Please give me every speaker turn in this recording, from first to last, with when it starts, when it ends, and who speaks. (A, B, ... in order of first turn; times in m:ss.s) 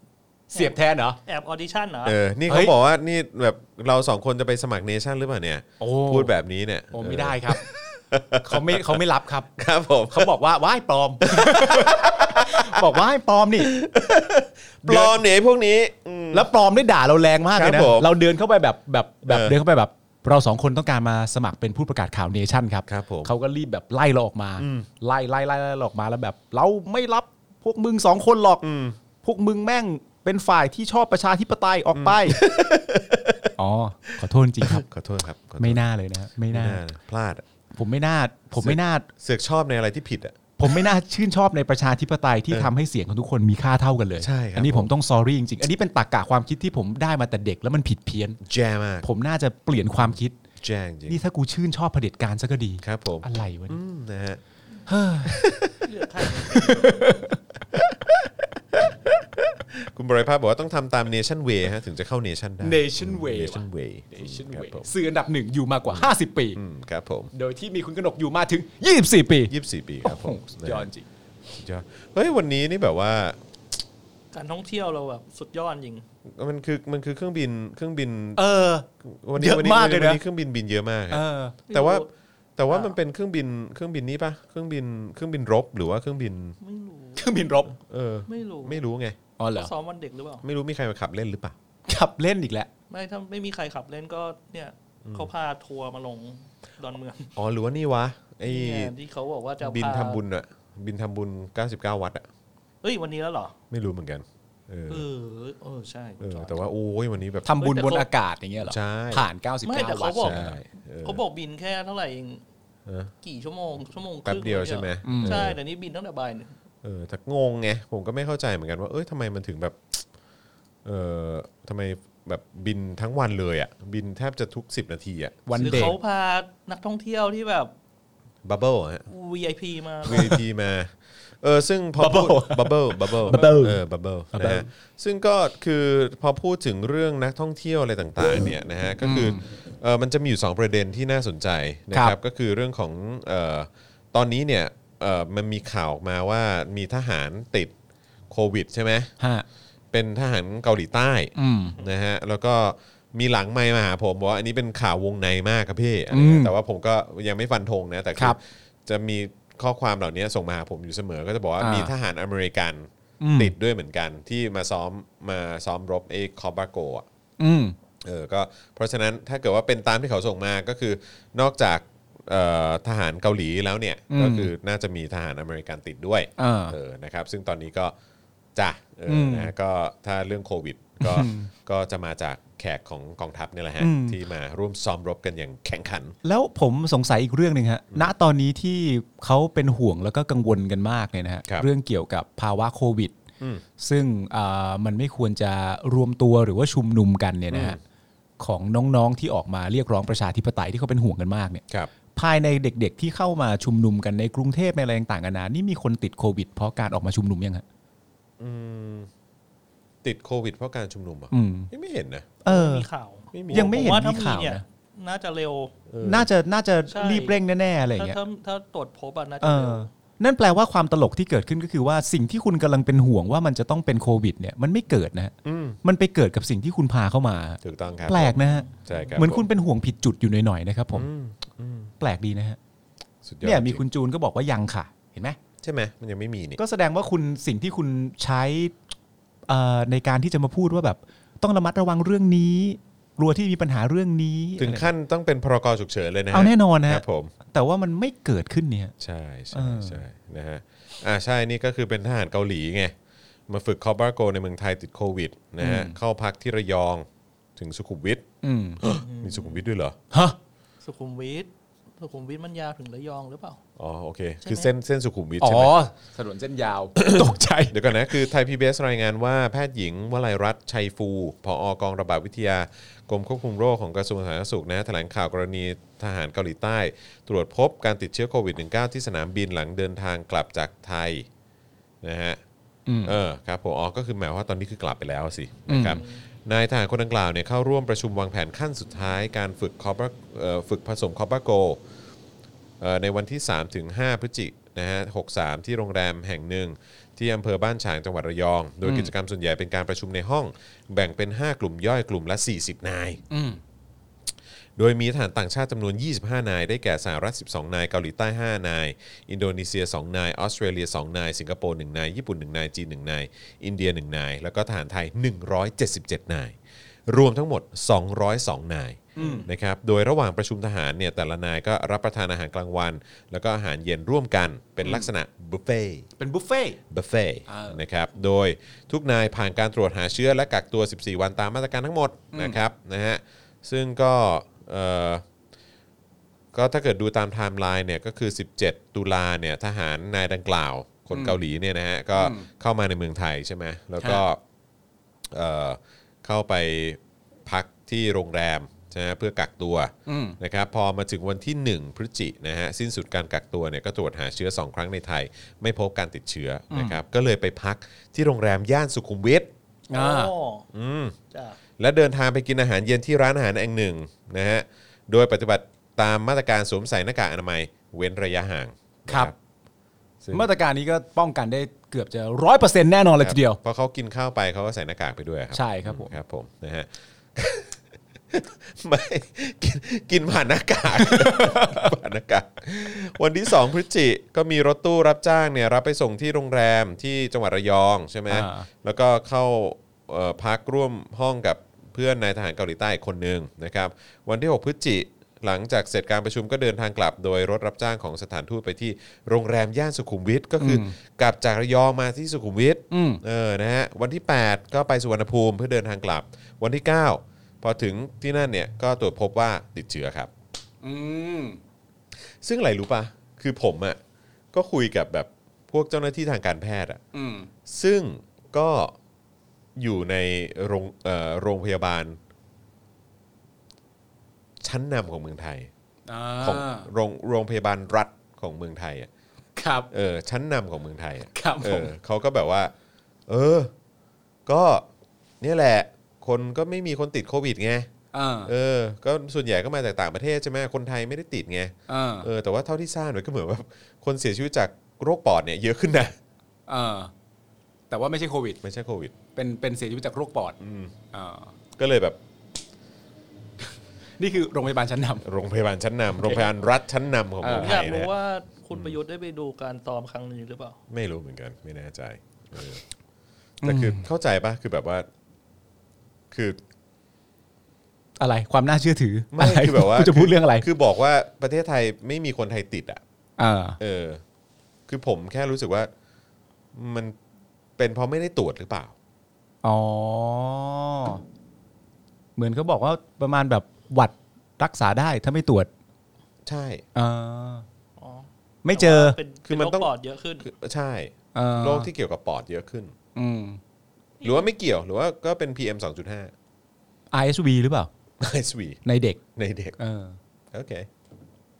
0:00.5-0:01.2 A
0:00.5-0:02.2 B
0:02.0-0:09.0 C
0:02.5-0:02.7 A
0:05.8-0:06.3 A
0:06.9-0:07.6 A
0:08.4-0:09.5 A
0:09.6-0:10.3 C
0:10.1-0:13.7 A
0:11.3-0:13.0 C
0:13.6-0:16.5 C
0:14.8-0:15.2 A
0:16.3-0:28.6 A
0:17.5-0:18.1 C
0:19.2-0:19.6 C
0:22.9-0:23.3 C
0:24.6-0:24.8 C
0:28.6-0:29.0 C
0:29.2-0:32.4 A
0:31.9-0:33.5 C
0:33.6-0:34.8 A
0:34.6-0:35.8 C
0:35.6-0:36.8 A
0:36.5-0:37.4 C
0:37.7-0:39.1 A
0:38.6-0:40.8 C
0:40.6-0:48.4 A
0:44.2-0:44.9 C
0:48.4-0:49.1 C
0:49.0-0:50.4 A
0:50.0-0:51.2 C
0:51.1-0:53.8 A
0:52.8-0:54.4 C
0:54.9-0:55.4 A
0:55.2-0:55.9 C
0:55.8-0:57.0 B
0:56.5-0:57.4 A
0:57.7-1:04.9 C
1:02.6-1:03.6 A
1:04.2-1:06.6 A
1:05.9-1:07.3 C
1:07.3-1:11.1 A
1:09.5-1:10.9 C
1:11.5-1:13.4 C
1:14.3-1:16.0 B
1:16.3-1:18.4 C
1:18.4-1:20.2 A
1:19.0-1:22.0 C
1:21.1-1:21.6 A
1:21.7-1:22.1 B
1:22.6-1:26.6 C
1:22.7-1:22.9 B
1:26.6-1:27.2 B
1:27.2-1:27.8 A
1:27.8-1:29.2 C
1:28.3-1:28.8 B
1:29.4-1:29.7 A
1:29.5-1:30.4 B
1:30.4-1:31.5 C
1:31.9-1:32.7 A
1:32.9-1:37.3 B
1:37.4-1:38.9 C
1:38.4-1:40.2 B
1:39.6-1:42.3 C
1:42.8-1:43.6 B
1:43.7-1:45.0 C
1:44.9-1:46.6 B
1:46.2-1:47.5 C
1:47.4-1:50.6 A
1:47.6-1:48.1 B
1:48.6-1:49.2 C
1:49.6-1:50.4 B
1:50.2-1:51.2 C
1:51.0-1:52.4 B
1:53.2-1:56.5 B
1:54.2-1:55.6 C
1:55.0-1:55.5 A
1:56.8-2:00.0 C
2:00.8-2:05.9 C
2:05.4-2:06.0 A
2:05.6-2:07.7 B
2:08.4-2:09.0 C
2:09.1-2:10.4 B
2:10.0-2:27.7 C
2:10.1-2:10.4 A
2:12.0-2:13.8 A
2:13.3-2:13.6 B
2:14.3-2:14.7 A
2:19.0-2:19.4 A
2:28.3-2:29.1 C
2:29.2-2:29.4 A
2:29.9-2:47.0 C
2:31.4-2:31.8 A
2:36.1-2:36.5 A
2:41.6-2:41.9 A
2:43.2-2:43.5 A
2:47.4-2:47.7 A
2:48.0-2:57.9 C
2:54.1-2:54.5 A
2:56.4-2:56.8 A
2:58.6-3:06.2 C
2:59.1-2:59.5 A
3:01.0-3:01.5 A
3:03.8-3:04.2 A
3:06.2-3:13.2 A
3:13.8-3:17.8 A
3:17.5-3:17.8 C
3:18.4-3:21.6 A
3:22.1-3:27.6 A
3:28.4-3:29.1 C
3:30.0-3:32.3 C
3:31.3-3:31.7 A
3:32.4-3:32.8 A
3:32.4-3:35.7 B
3:33.3-3:34.0 C
3:33.5-3:34.6 A
3:35.9-3:36.3 C
3:36.0-3:38.2 A
3:36.9-3:37.4 B
3:38.0-3:39.9 B
3:39.4-3:51.1 A
3:45.4-3:45.8 C
3:47.6-3:49.4 C
3:48.2-3:49.2 B
3:50.9-3:51.9 C
3:52.0-3:52.6 A
3:53.2-3:53.8 C
3:53.4-3:55.4 A
3:55.6-3:56.6 C
3:56.6-3:58.7 A
3:59.5-4:04.9 A
4:04.6-4:07.3 C
4:06.3-4:08.9 A
4:09.0-4:12.9 C
4:09.5-4:10.0 A
4:13.5-4:18.2 C
4:15.6-4:16.0 A
4:18.4-4:18.8 A
4:18.8-4:20.0 C
4:18.8-4:19.6 B
4:20.1-4:20.4 A
4:20.8-4:23.6 B
4:23.8-4:25.7 C
4:24.4-4:24.7 B
4:25.4-4:28.1 A
4:27.0-4:41.3 C
4:42.0-4:42.4 C
4:42.9-4:43.2 A
4:43.0-4:51.8 C
4:45.7-4:46.0 A
4:52.8-5:03.2 C
4:58.8-4:59.1 A
5:03.3-5:03.6 A
5:04.8-5:16.6 C
5:17.1-5:26.1 C
5:19.2-5:19.5 A
5:19.2-5:19.4 B
5:24.8-5:25.1 A
5:26.2-5:26.8 A
5:26.9-5:35.2 C
5:27.5-5:27.8 A
5:32.3-5:32.6 A
5:36.5-5:44.4 C
5:41.1-5:41.4 A
5:42.2-5:42.5 A
5:45.3-5:59.5 C
5:50.1-5:50.4 A
5:56.7-5:57.0 A
5:59.9-6:00.3 A
5:59.9-6:00.7 B
6:00.7-6:01.1 C
6:01.3-6:01.6 B
6:01.8-6:09.4 C
6:09.1-6:09.3 A
6:10.2-6:10.5 C
6:10.3-6:13.6 A
6:13.2-6:17.8 C
6:15.5-6:16.1 A
6:18.3-6:50.3 C
6:21.0-6:21.9 A
6:28.3-6:28.7 A
6:40.6-6:41.0 A
6:42.9-6:43.2 A
6:50.8-6:51.6 A
6:52.4-6:54.0 C
6:54.5-6:57.0 C
6:57.1-6:57.5 A
6:57.6-6:58.9 C
6:59.8-7:02.2 C
7:04.6-7:05.7 C
7:06.1-7:06.9 A
7:06.4-7:09.1 C
7:09.6-7:09.9 A
7:09.9-7:12.7 C
7:11.3-7:11.9 A
7:13.3-7:13.7 C
7:14.4-7:14.9 C
7:15.4-7:17.9 C
7:18.1-7:18.5 A
7:18.4-7:26.2 C
7:21.9-7:22.3 A
7:26.7-7:27.1 A
7:27.9-7:28.6 A
7:28.6-7:29.1 C
7:29.3-7:30.6 A
7:30.6-7:30.9 C
7:31.1-7:31.5 A
7:31.8-7:32.2 C
7:34.2-7:35.2 A
7:35.2-7:38.1 C
7:36.2-7:36.5 A
7:37.4-7:37.8 A
7:37.5-7:40.8 B
7:40.9-7:42.8 C
7:43.6-7:45.1 C
7:43.6-7:44.1 A
7:46.3-7:46.6 C
7:48.2-7:50.6 A
7:49.3-7:53.0 C
7:53.4-7:53.8 A
7:53.8-7:54.2 C
7:54.9-7:55.9 C
7:56.7-7:57.2 C
7:57.8-7:58.9 C
7:59.6-8:01.2 A
8:02.4-8:05.7 A
8:06.4-8:06.8 C
8:06.9-8:07.6 A
8:08.0-8:10.4 B
8:08.6-8:09.2 A
8:09.4-8:09.9 C
8:10.4-8:12.9 C
8:11.3-8:11.9 A
8:13.1-8:13.6 A
8:14.2-8:14.5 B
8:14.2-8:16.3 C
8:17.1-8:17.9 A
8:18.2-8:18.8 C
8:18.8-8:19.2 A
8:19.4-8:19.8 C
8:19.8-8:20.2 A
8:20.5-8:20.9 C